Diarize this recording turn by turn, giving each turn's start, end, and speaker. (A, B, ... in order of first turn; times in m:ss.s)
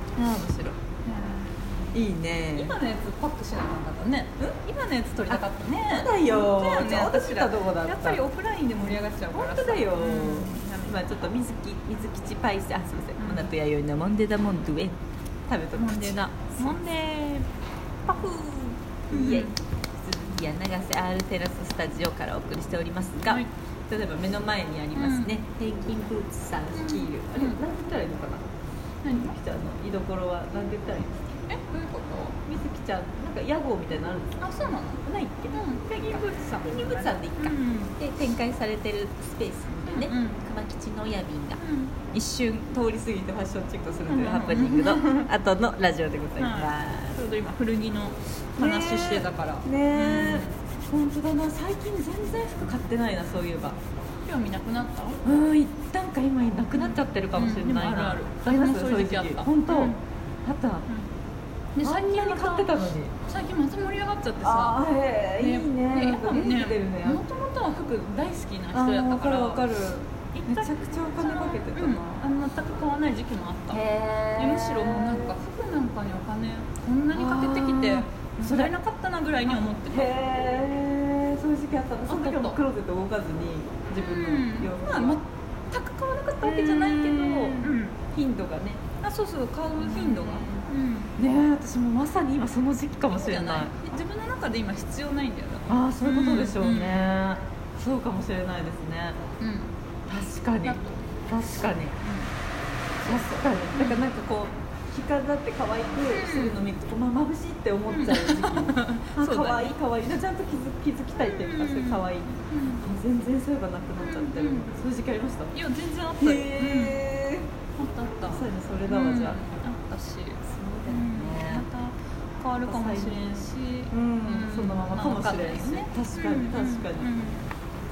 0:00.2-0:00.8 A
0:01.0-0:02.0 B
0:01.9-0:02.8 A
0:02.5-0:11.1 B
0:05.3-0:08.2 A
0:09.3-0:16.9 A
0:13.2-0:13.5 B
0:15.7-0:17.5 B
0:18.1-0:18.6 B
0:18.2-0:28.5 A
0:19.1-0:19.6 B
0:25.0-0:25.4 B
0:26.7-0:27.6 B
0:29.0-0:29.4 B
0:29.1-0:31.4 A
0:31.5-0:32.4 B
0:32.4-0:47.2 A
0:34.4-0:38.0 B
0:39.9-0:40.4 B
0:41.6-0:42.0 B
0:44.1-0:45.3 B
0:46.4-0:50.6 B
0:48.6-0:53.8 A
0:54.2-0:55.2 B
0:55.2-1:00.9 A
0:56.7-1:00.0 B
1:01.8-1:04.8 B
1:01.8-1:03.1 A
1:04.4-1:07.2 A
1:05.4-1:09.6 B
1:08.7-1:12.2 A
1:10.3-1:13.8 B
1:13.7-1:15.4 A
1:14.4-1:20.2 B
1:17.1-1:18.7 A
1:19.4-1:25.2 A
1:22.1-1:22.6 B
1:24.0-1:28.0 B
1:26.4-1:28.8 A
1:29.0-1:31.1 B
1:29.8-1:30.6 A
1:31.2-1:33.7 A
1:33.1-1:37.2 B
1:35.7-1:39.2 A
1:39.4-1:39.8 B
1:40.1-1:42.0 A
1:40.6-1:41.0 B
1:42.0-1:42.3 B
1:43.0-1:55.5 A
1:43.7-1:44.0 B
1:46.1-1:46.7 B
1:47.9-1:49.7 B
1:51.2-1:52.8 B
1:54.0-1:54.8 B
1:55.5-1:57.1 B
1:56.2-1:57.5 A
1:57.8-2:07.5 B
1:58.3-1:59.6 A
2:00.4-2:01.6 A
2:02.6-2:07.1 A